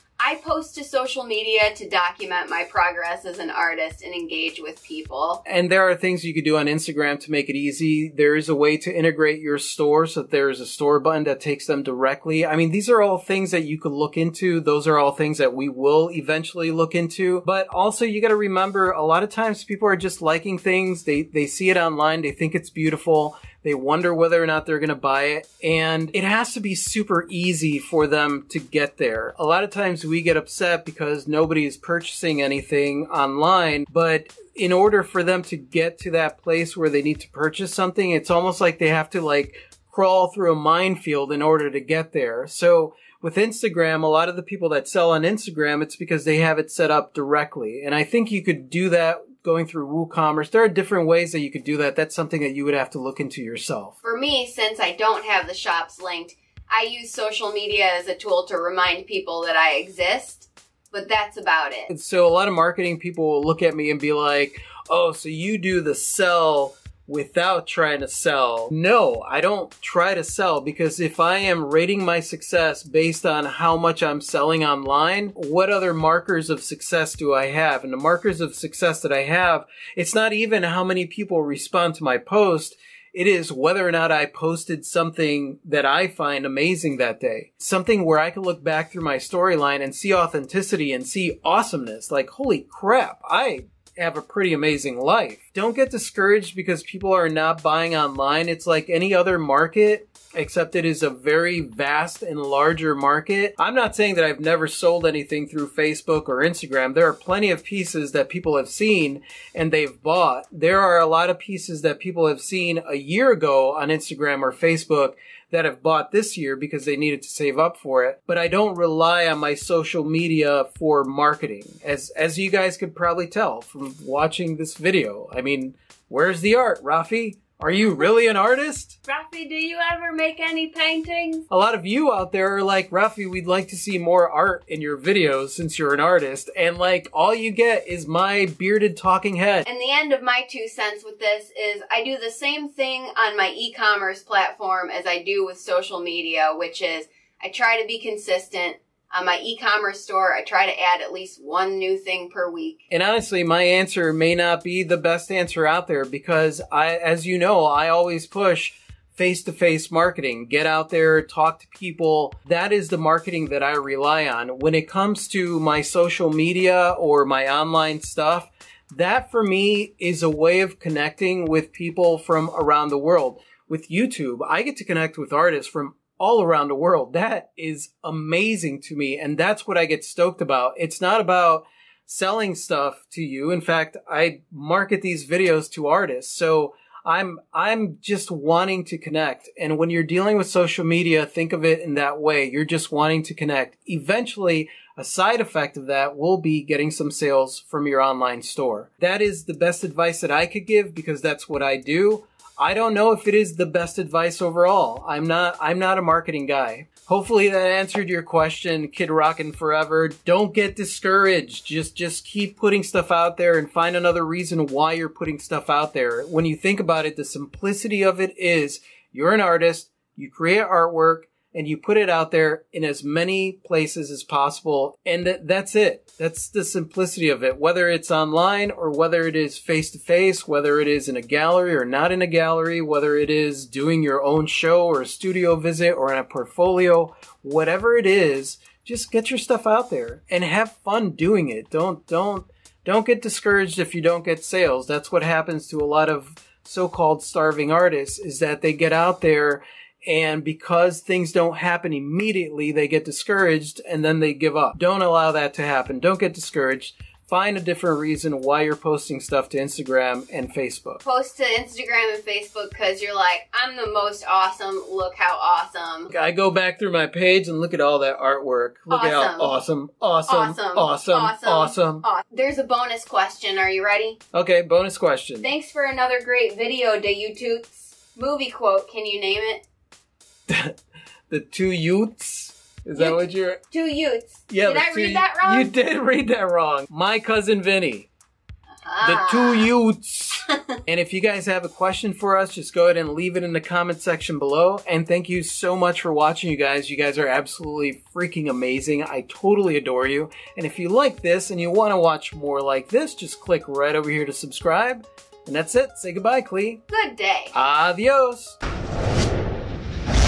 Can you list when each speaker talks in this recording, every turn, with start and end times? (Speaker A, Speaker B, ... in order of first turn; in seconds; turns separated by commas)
Speaker A: 0.2-5.4, Speaker B: 5.4-53.9, Speaker A: 54.0-61.9, Speaker B: 61.9-129.0, Speaker A: 129.1-131.5, Speaker B: 131.5-139.7, Speaker A: 139.7-152.8, Speaker B: 152.9-261.0, Speaker A: 261.0-266.1, Speaker B: 266.1-272.0, Speaker A: 268.9-269.5, Speaker A: 270.3-274.2, Speaker B: 274.3-275.5, Speaker A: 275.4-279.6, Speaker B: 280.5-280.8, Speaker B: 281.3-283.6, Speaker A: 282.9-285.7, Speaker B: 284.5-288.1, Speaker A: 288.8-289.7, Speaker B: 289.0-306.8, Speaker A: 290.5-290.7, Speaker A: 306.9-307.5, Speaker B: 307.5-308.6